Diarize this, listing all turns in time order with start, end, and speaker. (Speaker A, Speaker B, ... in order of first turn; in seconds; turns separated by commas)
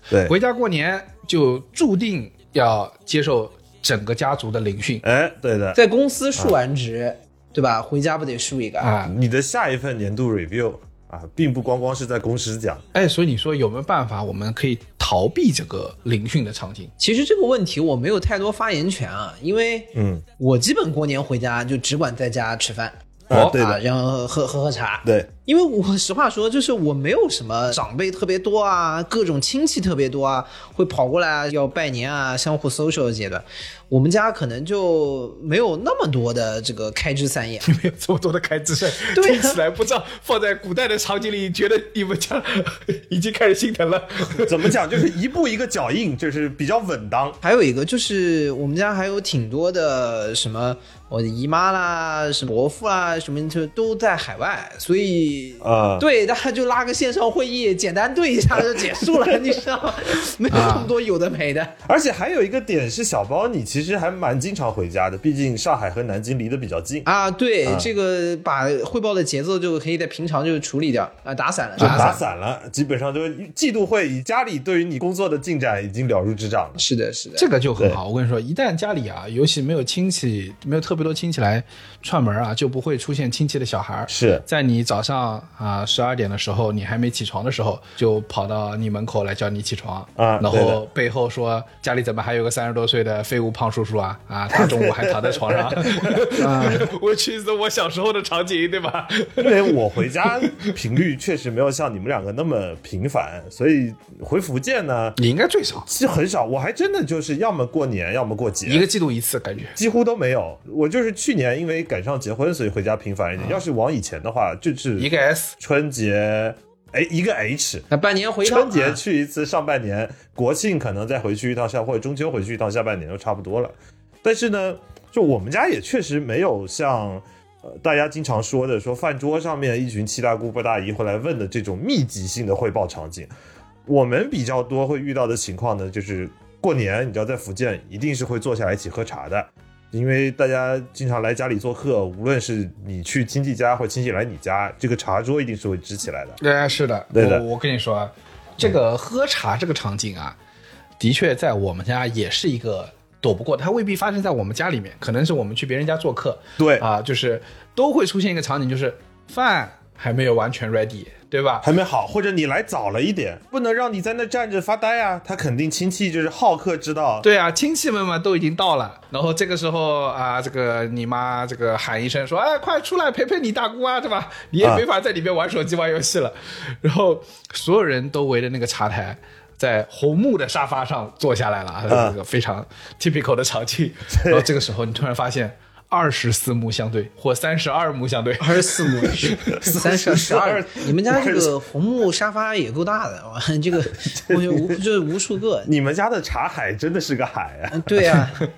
Speaker A: 0.1-0.3, Speaker B: 0.2-5.0, Speaker A: 5.0-5.8, Speaker C: 5.7-8.9, Speaker B: 8.8-9.1, Speaker A: 9.0-12.8, Speaker B: 12.9-16.9, Speaker C: 17.0-37.7, Speaker A: 19.9-20.2, Speaker A: 23.3-23.8, Speaker B: 23.3-23.6, Speaker A: 25.0-25.3, Speaker B: 37.6-44.7, Speaker C: 39.1-39.6, Speaker A: 44.3-47.4, Speaker C: 47.4-61.8, Speaker A: 55.6-56.1, Speaker B: 60.5-60.9, Speaker A: 61.9-67.1, Speaker C: 67.0-72.2, Speaker A: 67.6-67.9, Speaker B: 71.8-72.1, Speaker A: 71.8-76.8, Speaker C: 76.8-77.5, Speaker B: 77.4-99.7, Speaker A: 84.1-84.4, Speaker A: 90.2-90.8, Speaker A: 94.5-96.7, Speaker C: 96.4-96.8, Speaker A: 99.4-105.2, Speaker B: 105.2-105.9, Speaker A: 105.8-108.9, Speaker B: 108.7-109.8, Speaker A: 109.8-117.9, Speaker B: 115.0-115.5, Speaker C: 117.9-119.0, Speaker A: 118.4-133.3, Speaker A: 133.9-146.4, Speaker B: 146.4-150.3, Speaker A: 147.1-147.4, Speaker B: 151.0-161.7, Speaker A: 156.6-156.8, Speaker A: 161.6-167.2, Speaker B: 167.2-189.7, Speaker A: 181.9-182.1, Speaker A: 184.1-184.5, Speaker C: 188.4-195.7, Speaker A: 189.4-191.6, Speaker A: 194.1-194.8, Speaker A: 195.6-198.3, Speaker C: 197.7-198.4